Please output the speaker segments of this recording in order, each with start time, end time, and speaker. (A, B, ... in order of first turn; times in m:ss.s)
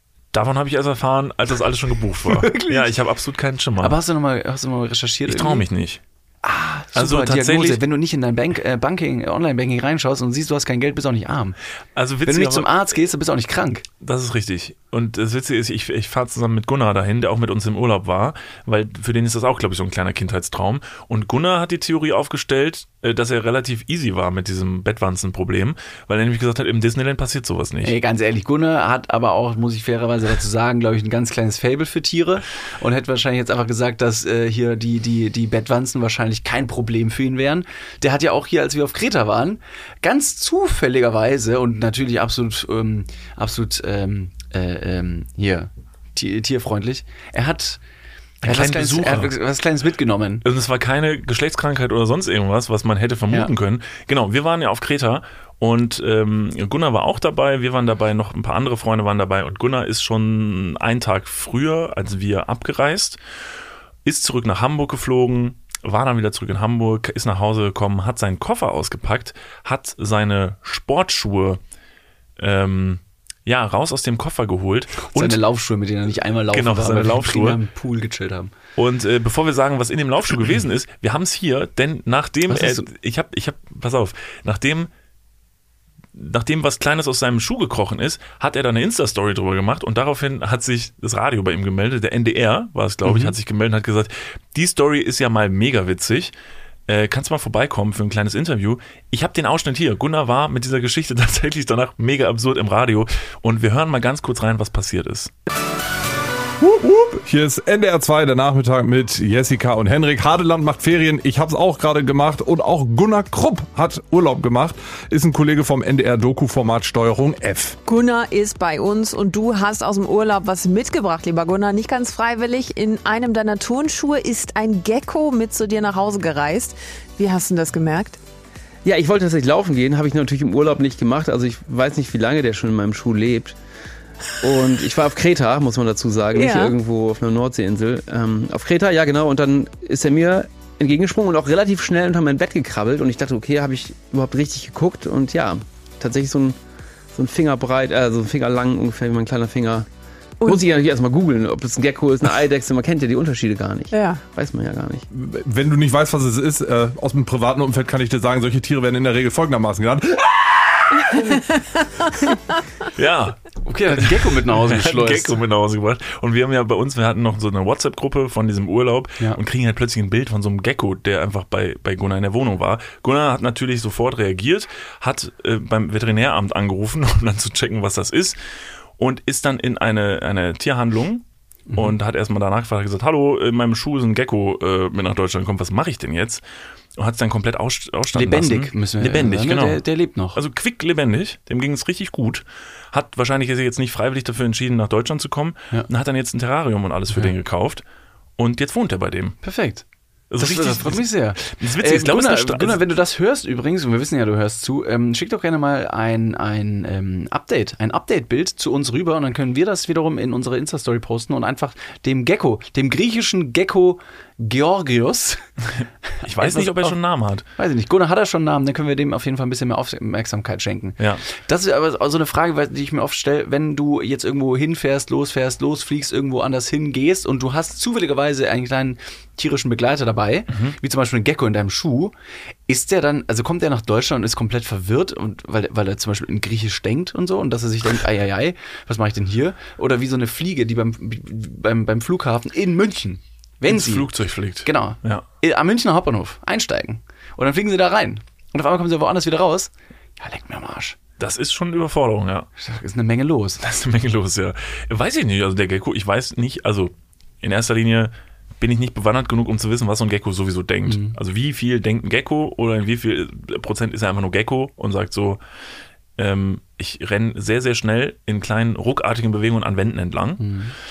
0:00.3-0:04.0 A
0:02.2-0:02.9 B
0:03.8-0:05.6 B
0:05.2-0:06.0 A
0:06.4-0:11.6 B
0:06.9-0:07.8 A
0:12.0-0:12.7 A
0:12.2-0:13.8 B
0:14.0-0:27.9 A
0:27.8-0:47.8 B
0:48.4-0:49.3 A
0:48.4-0:50.4 B
0:50.4-1:03.2 A
1:04.0-1:11.6 A
1:12.4-1:15.4 A
1:15.1-1:18.5 B
1:16.5-1:17.6 A
1:18.8-1:24.9 A
1:22.5-1:22.9 B
1:26.1-1:36.3 A
1:33.0-1:33.3 B
1:36.9-1:45.3 A
1:46.6-1:57.8 C
1:57.8-2:08.2 D
2:08.8-2:13.5 E
2:14.4-2:26.6 E
2:16.3-2:16.7 D
2:27.1-2:29.9 E
2:30.4-2:35.0 E
2:33.9-2:34.2 D
2:35.1-2:41.5 C
2:42.9-2:43.4 A
2:43.6-2:45.4 B
2:43.9-2:58.4 A
2:59.0-3:06.4 A
3:01.7-3:02.0 B
3:07.0-3:17.8 A
3:08.1-3:10.4 B
3:18.4-3:19.4 A
3:19.4-3:19.8 B
3:20.3-3:22.8 A
3:20.4-3:35.5 B
3:36.2-3:36.9 B
3:36.2-3:37.4 A
3:37.6-3:52.1 B
3:50.5-3:50.8 A
3:52.7-4:11.0 B
4:03.6-4:05.2 A
4:11.2-4:12.5 A
4:12.6-4:13.6 B
4:13.6-4:25.4 A
4:20.8-4:21.2 B
4:26.2-4:30.5 A
4:30.4-4:30.7 B